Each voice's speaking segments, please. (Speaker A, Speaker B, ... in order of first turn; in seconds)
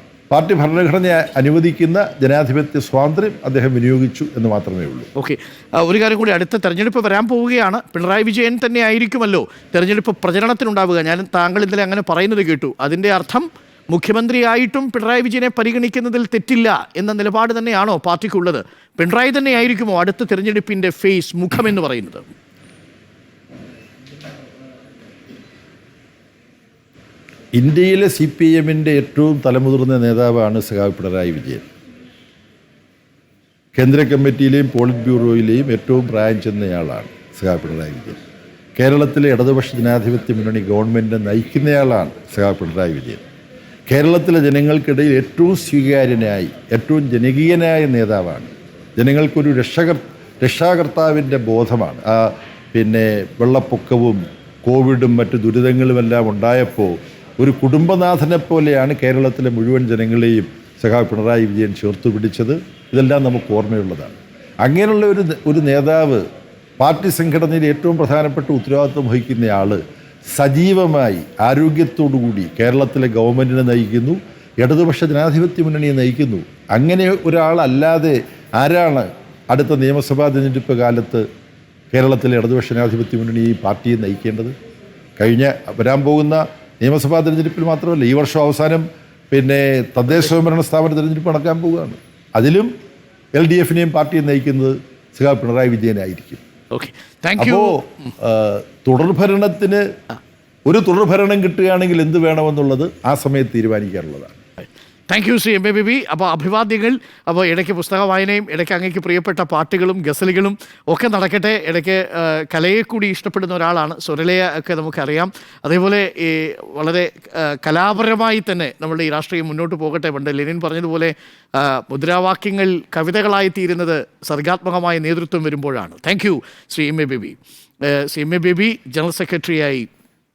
Speaker A: 0.3-5.1, 27.6-31.6, 33.8-38.2, 38.8-43.2, 43.9-66.2, 66.8-69.8, 70.3-81.2, 81.9-84.5, 85.2-92.7, 93.4-96.4, 97.4-99.8, 100.7-104.4
Speaker B: 5.2-22.2, 96.7-97.8, 105.1-129.9